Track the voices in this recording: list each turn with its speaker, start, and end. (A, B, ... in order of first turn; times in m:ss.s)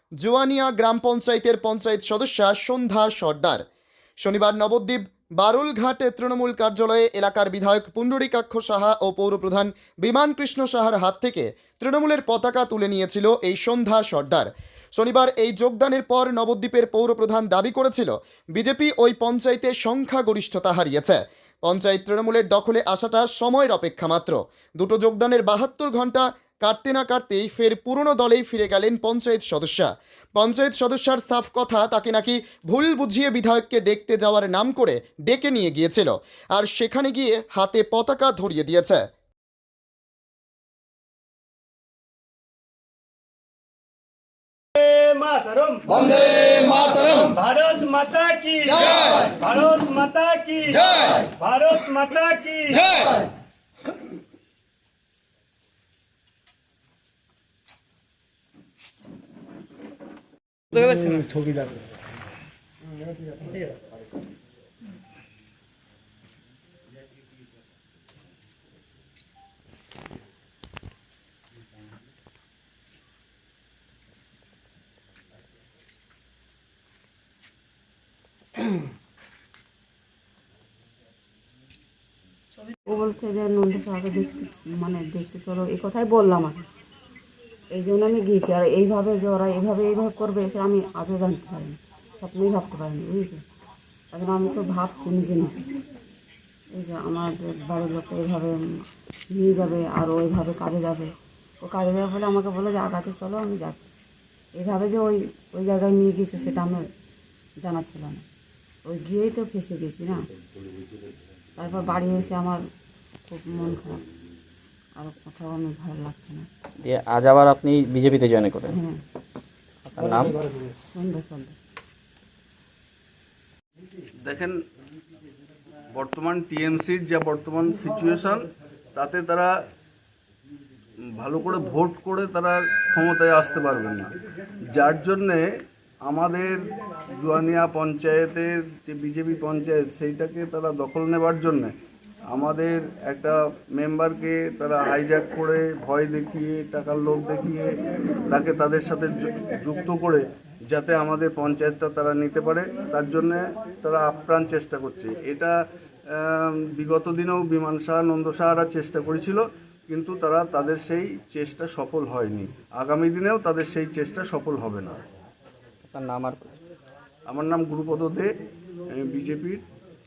0:00.2-0:03.6 A
0:04.2-0:39.1 A
0:44.8-0:53.2 B
1:22.9-1:26.7 C
1:27.7-1:33.4 C
1:34.1-1:35.7 C
1:36.7-1:43.9 C
1:44.6-1:46.9 C
1:47.6-1:48.2 C
1:48.9-1:50.3 C
1:51.6-1:52.6 C
1:53.3-1:54.1 C
1:55.0-1:56.5 C
1:56.8-1:58.8 D
1:58.7-1:59.0 C
1:59.9-2:00.4 D
2:00.9-2:01.6 C
2:04.2-2:04.6 E
2:06.0-2:09.5 E
2:11.2-2:14.2 E
2:14.7-2:15.5 E
2:16.0-2:21.7 E
2:22.3-2:35.6 E
2:36.1-2:45.0 E
2:45.9-2:46.6 D
2:47.3-2:48.3 E
2:48.9-2:49.6 E